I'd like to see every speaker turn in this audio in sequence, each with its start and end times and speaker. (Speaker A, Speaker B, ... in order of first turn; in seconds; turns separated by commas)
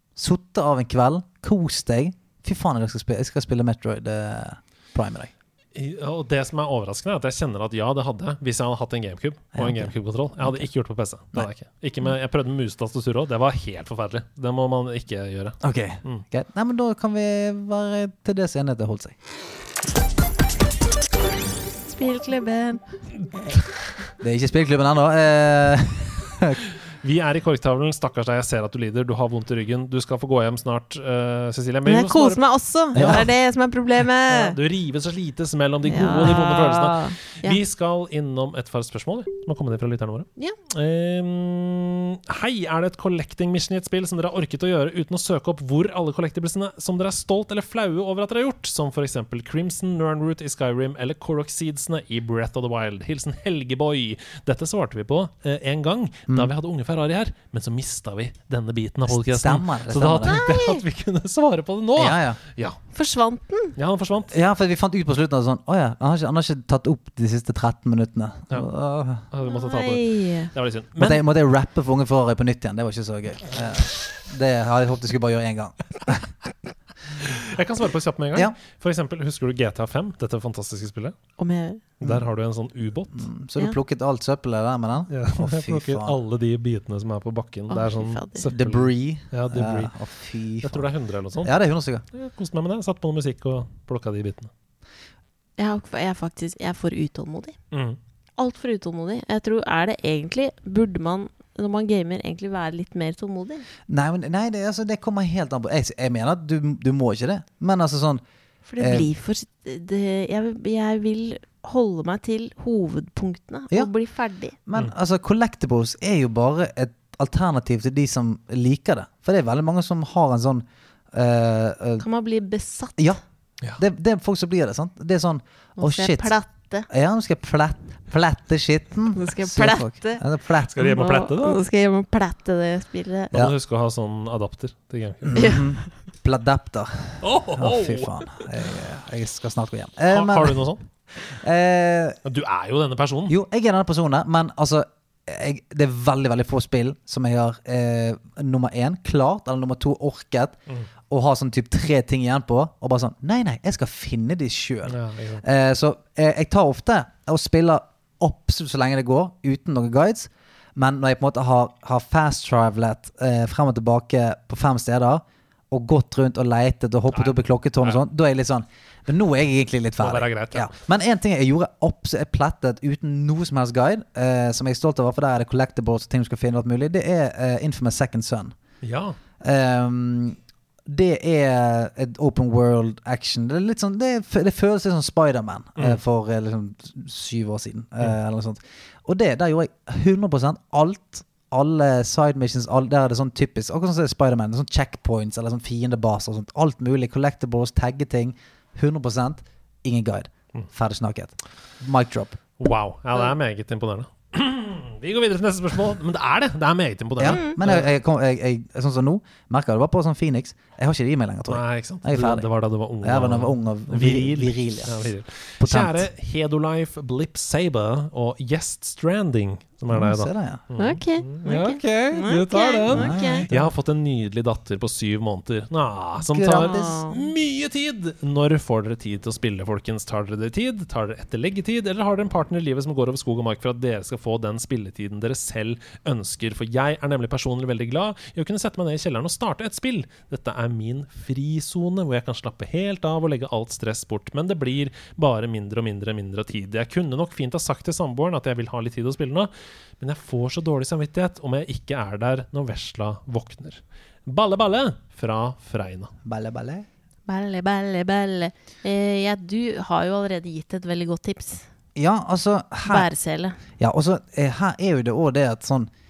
Speaker A: 0.1-5.3, Speaker B: 5.7-16.2, Speaker A: 9.5-10.6, Speaker A: 15.6-19.1, Speaker C: 21.9-22.8, Speaker A: 24.2-26.6, Speaker B: 27.0-32.4, Speaker C: 31.9-34.6, Speaker A: 32.9-33.3, Speaker B: 33.0-33.2, Speaker B: 34.3-62.8, Speaker C: 35.9-37.6, Speaker A: 59.1-60.4, Speaker C: 60.2-60.8, Speaker A: 62.0-62.4, Speaker C: 62.9-63.8, Speaker B: 63.8-64.4, Speaker A: 64.3-69.2, Speaker B: 69.3-71.2, Speaker C: 69.5-70.5, Speaker A: 71.0-76.3, Speaker B: 77.2-81.1, Speaker C: 81.4-81.8, Speaker B: 82.0-83.3, Speaker A: 83.1-86.2, Speaker B: 85.1-89.9, Speaker C: 87.7-88.5, Speaker A: 88.5-90.9, Speaker B: 90.6-91.5, Speaker A: 91.4-92.0, Speaker B: 92.1-94.5, Speaker C: 95.6-97.5, Speaker B: 97.7-98.0, Speaker C: 98.4-103.7, Speaker A: 103.9-108.2, Speaker C: 108.7-114.6, Speaker A: 108.8-109.1, Speaker A: 114.7-122.0, Speaker C: 122.0-123.1, Speaker A: 123.8-126.3, Speaker C: 125.8-126.9, Speaker A: 126.9-131.0, Speaker C: 129.1-130.2, Speaker B: 130.7-131.6, Speaker C: 130.8-133.3, Speaker B: 133.3-135.6, Speaker A: 135.2-140.6, Speaker C: 135.3-135.8, Speaker B: 137.2-138.4, Speaker B: 140.1-140.8, Speaker A: 141.3-142.2, Speaker B: 142.2-143.3, Speaker A: 143.3-150.6, Speaker A: 151.1-178.5, Speaker B: 154.9-155.4, Speaker B: 167.1-168.0, Speaker B: 170.0-170.7, Speaker B: 178.8-179.2, Speaker A: 179.4-202.4, Speaker B: 202.6-207.9, Speaker A: 207.2-212.5, Speaker C: 207.2-207.6, Speaker B: 211.5-256.1, Speaker A: 213.0-216.1, Speaker A: 219.9-220.6, Speaker C: 220.8-223.5, Speaker A: 222.9-223.7, Speaker A: 226.3-227.0, Speaker C: 226.5-227.2, Speaker A: 256.2-256.9, Speaker C: 257.3-261.6, Speaker A: 261.9-263.1, Speaker C: 262.9-263.6, Speaker A: 263.8-265.9